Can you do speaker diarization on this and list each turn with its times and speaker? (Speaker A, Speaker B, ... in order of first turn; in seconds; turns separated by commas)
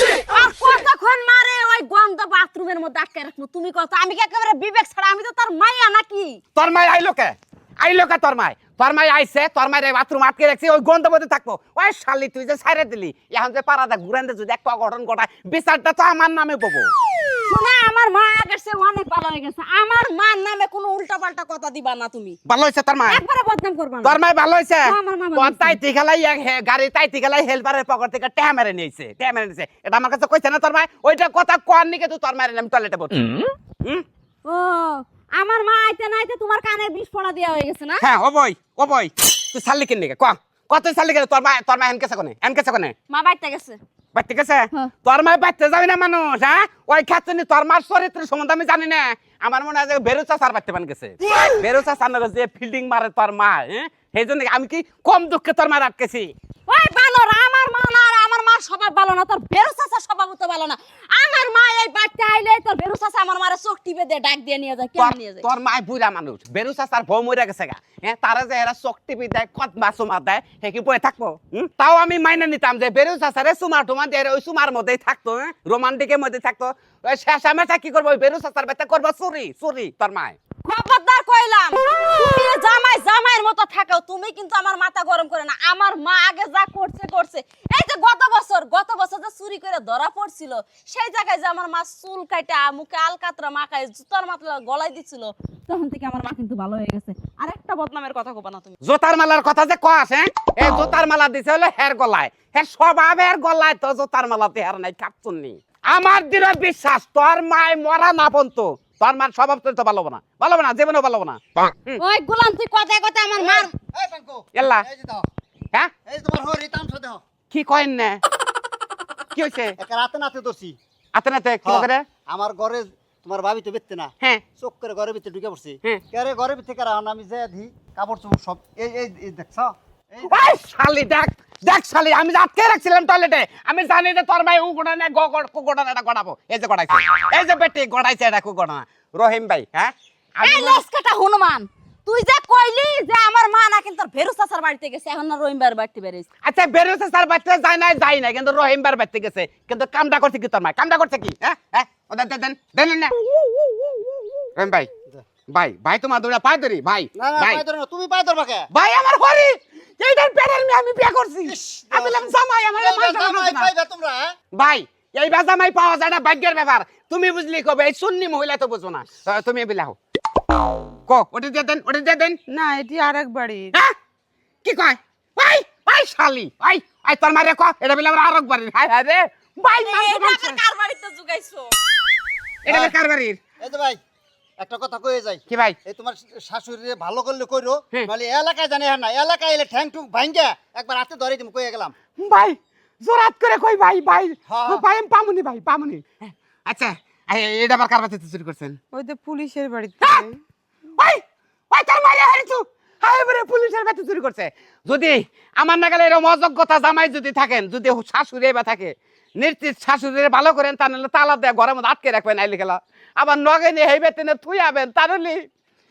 Speaker A: 0.3-6.4, Speaker B: 6.5-16.9, Speaker A: 17.5-22.4, Speaker B: 22.5-23.2, Speaker A: 23.1-24.2, Speaker B: 24.0-33.3, Speaker A: 24.9-25.8, Speaker A: 34.5-38.0, Speaker B: 38.0-43.0, Speaker A: 43.1-43.8, Speaker B: 44.1-56.3, Speaker A: 56.7-65.5, Speaker B: 65.0-80.4, Speaker A: 80.7-98.7, Speaker B: 98.8-112.0, Speaker A: 112.0-113.7, Speaker C: 113.4-115.3, Speaker B: 114.5-114.9, Speaker C: 116.1-117.2, Speaker B: 117.5-118.2, Speaker B: 119.3-119.8, Speaker C: 119.8-120.8, Speaker B: 121.2-122.0, Speaker C: 121.6-130.4, Speaker B: 130.2-140.8, Speaker A: 140.4-146.3, Speaker B: 146.4-153.2, Speaker B: 154.6-154.9, Speaker B: 155.5-157.6, Speaker C: 157.2-158.7, Speaker B: 158.7-163.7, Speaker C: 161.4-164.3, Speaker B: 164.6-170.0, Speaker B: 171.1-172.4, Speaker D: 172.5-173.7, Speaker B: 174.6-180.6, Speaker A: 179.8-181.8, Speaker C: 182.7-182.9, Speaker B: 182.7-183.4, Speaker C: 183.6-184.0, Speaker C: 184.6-191.9, Speaker B: 185.5-185.8, Speaker B: 192.2-198.8, Speaker C: 194.5-194.8, Speaker D: 198.9-200.4, Speaker B: 200.0-200.3, Speaker B: 201.0-215.5